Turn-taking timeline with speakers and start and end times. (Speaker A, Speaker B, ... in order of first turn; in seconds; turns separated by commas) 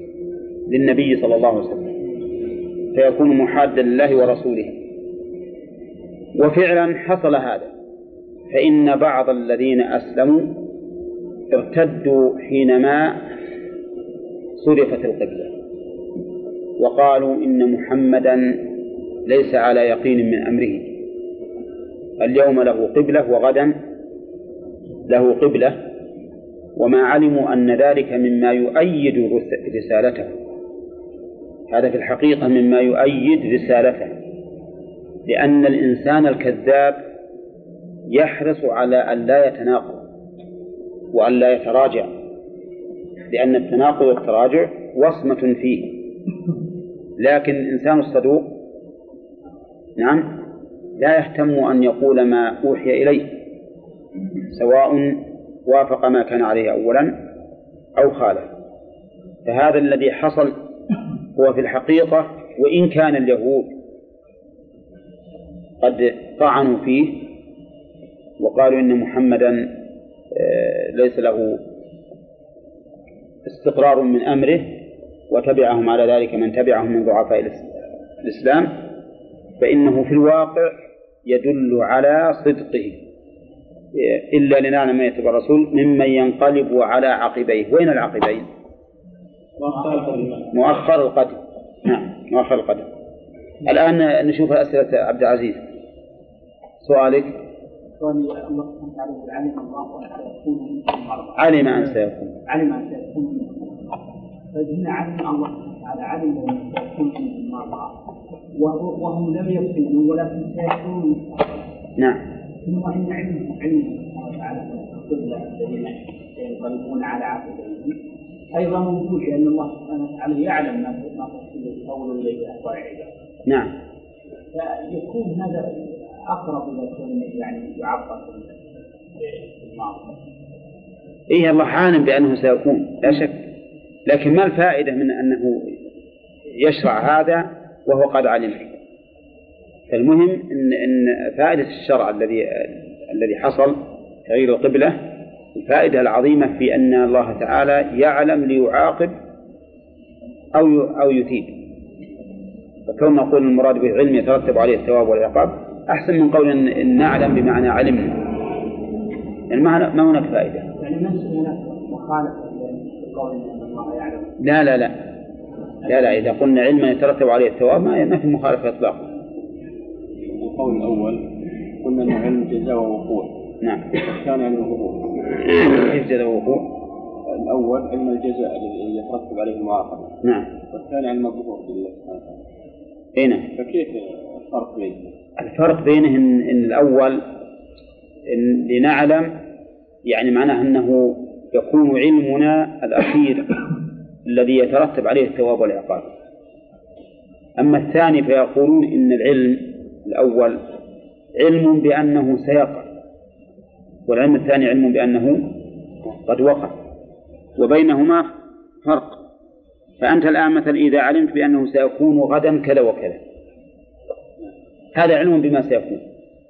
Speaker A: 0.7-1.9, Speaker A: 2.9-4.8, Speaker A: 6.3-7.7, Speaker A: 8.5-10.6, Speaker A: 11.5-13.2, Speaker A: 14.6-15.5, Speaker A: 16.8-18.6, Speaker A: 19.2-20.9, Speaker A: 22.2-23.7, Speaker A: 25.1-25.8, Speaker A: 26.8-30.3, Speaker A: 31.7-34.1, Speaker A: 35.3-37.0, Speaker A: 38.1-40.0, Speaker A: 41.1-42.1, Speaker A: 43.3-46.0, Speaker A: 47.2-48.5, Speaker A: 50.0-50.2, Speaker A: 51.0-53.3, Speaker A: 54.5-57.1, Speaker A: 58.0-58.5, Speaker A: 59.5-60.5, Speaker A: 61.3-63.7, Speaker A: 65.8-67.2, Speaker A: 68.4-69.7, Speaker A: 70.3-71.6, Speaker A: 73.5-74.7, Speaker A: 75.3-78.7, Speaker A: 79.6-80.8, Speaker A: 81.3-83.0, Speaker A: 83.9-88.5, Speaker B: 89.6-90.5, Speaker A: 90.5-92.9, Speaker A: 93.6-95.6, Speaker A: 96.8-97.3, Speaker B: 98.0-101.7, Speaker A: 101.3-102.3, Speaker B: 102.4-103.7, Speaker B: 104.5-107.9, Speaker B: 108.5-111.6, Speaker A: 112.0-112.2, Speaker B: 112.6-118.0, Speaker B: 118.5-123.1, Speaker A: 123.5-123.7, Speaker B: 124.5-128.5, Speaker B: 129.2-130.1, Speaker A: 131.3-133.4, Speaker A: 134.1-135.8, Speaker A: 136.6-138.7, Speaker A: 139.9-145.0, Speaker A: 145.6-149.1, Speaker A: 150.5-151.5, Speaker A: 152.9-158.2, Speaker A: 159.5-160.7, Speaker B: 160.8-164.3, Speaker A: 164.4-164.9, Speaker A: 165.9-169.1, Speaker C: 170.2-173.3, Speaker A: 173.6-173.9, Speaker C: 173.9-175.3, Speaker A: 175.4-176.7, Speaker C: 177.3-180.1, Speaker A: 180.2-180.5, Speaker C: 180.7-182.4, Speaker A: 183.2-183.5, Speaker C: 183.5-185.1, Speaker A: 185.4-187.2, Speaker A: 188.3-189.3, Speaker A: 190.1-193.6, Speaker A: 194.2-196.1, Speaker A: 197.6-200.6, Speaker A: 201.4-202.9, Speaker A: 204.1-205.5, Speaker A: 206.3-206.7, Speaker A: 207.6-208.3, Speaker A: 208.8-209.2, Speaker A: 210.0-213.2, Speaker A: 214.9-216.0